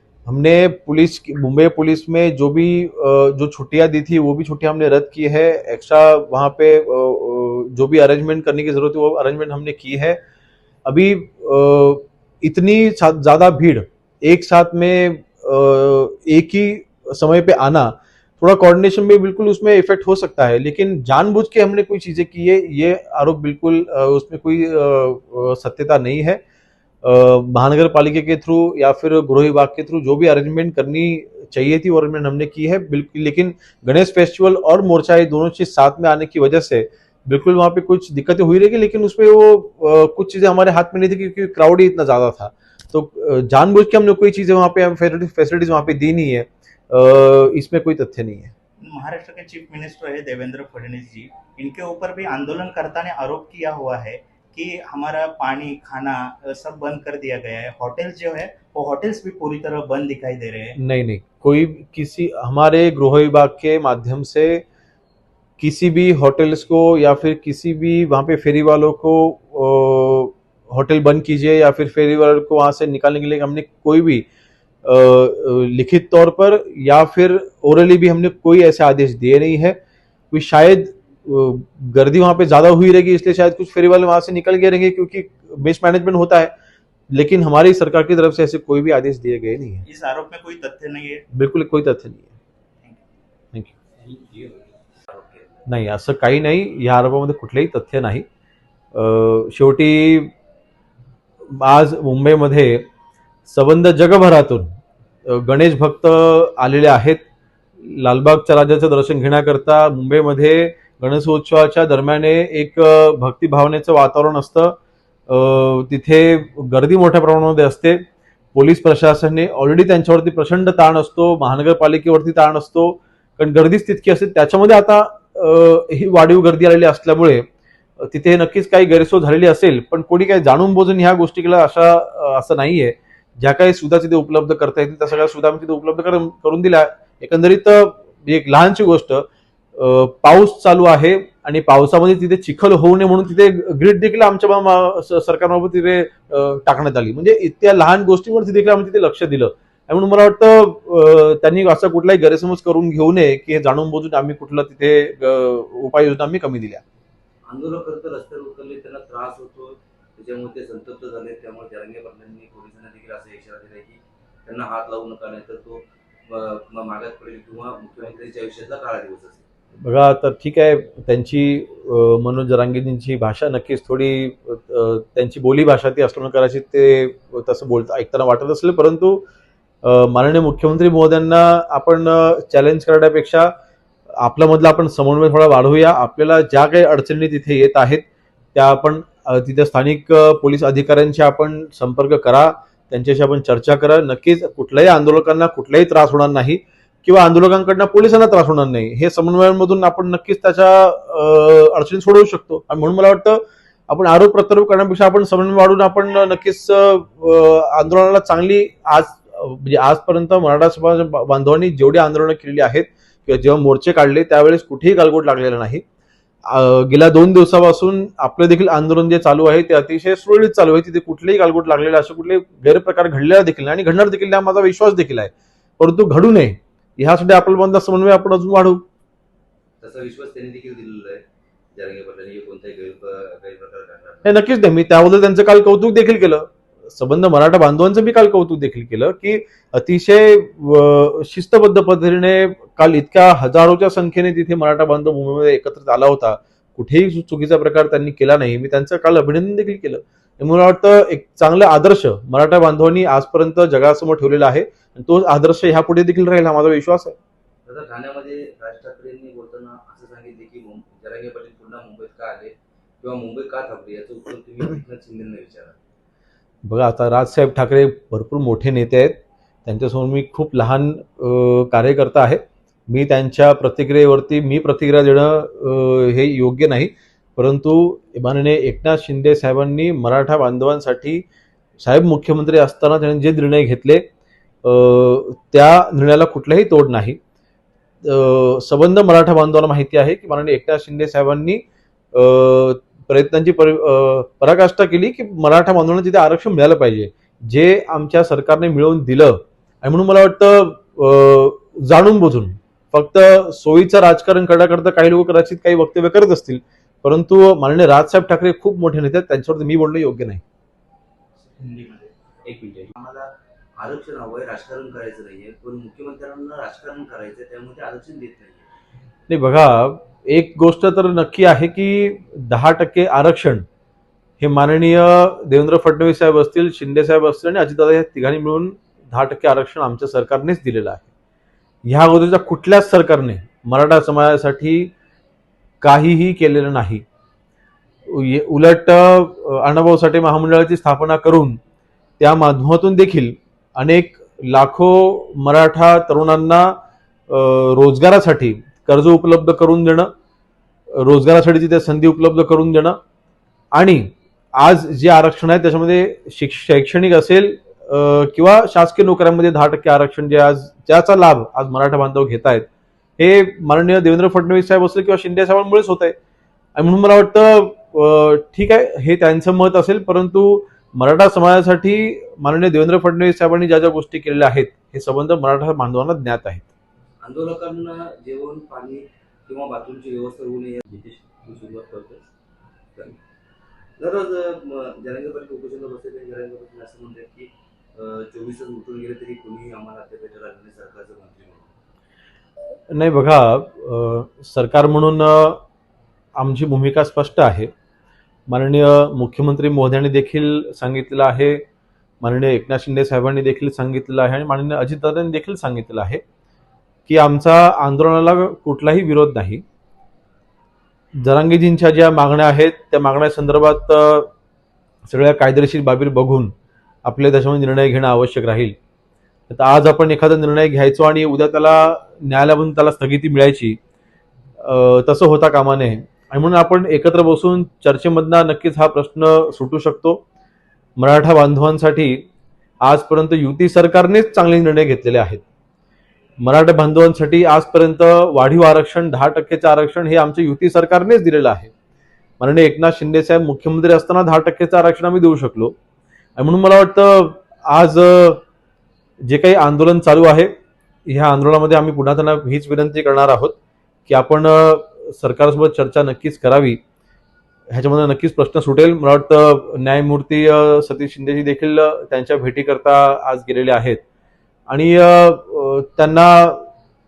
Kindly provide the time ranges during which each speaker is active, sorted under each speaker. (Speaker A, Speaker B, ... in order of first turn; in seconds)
Speaker A: 0.3-10.2, 10.8-26.4, 27.0-48.5, 60.8-64.6, 65.6-74.3, 74.8-79.8, 80.3-86.5, 87.1-89.8, 91.3-92.3, 95.7-98.2, 98.9-100.3, 101.5-102.9, 103.5-104.7, 105.2-107.2, 107.8-114.8, 115.3-118.0, 118.5-127.5, 128.0-156.8, 169.8-179.2, 179.8-183.5, 184.2-215.8, 216.4-228.8, 234.2-257.2, 266.6-281.2, 281.8-284.0, 284.6-287.2, 288.0-310.4, 319.3-323.6, 324.4-331.1, 331.9-334.9, 335.8-337.1, 338.1-341.6, 342.2-346.7, 347.3-350.1, 350.9-353.0, 353.8-362.7, 363.2-366.1, 366.8-376.7, 392.9-395.6, 396.4-397.7, 398.5-401.6, 402.2-406.2, 407.1-409.6, 411.2-414.3, 415.0-416.5, 417.1-418.8, 419.5-423.8, 424.6-430.2, 431.0-432.3, 432.8-435.4, 436.4-441.7, 442.4-445.8, 446.4-448.4, 449.2-450.5, 451.1-456.8, 457.7-464.0, 464.7-466.7
Speaker B: 48.8-60.8, 89.8-91.2, 311.4-312.1
Speaker C: 94.0-95.5, 157.5-169.5, 229.8-231.2, 231.7-234.3, 257.7-265.8, 312.5-313.3, 313.8-318.7, 377.2-382.3, 384.0-391.8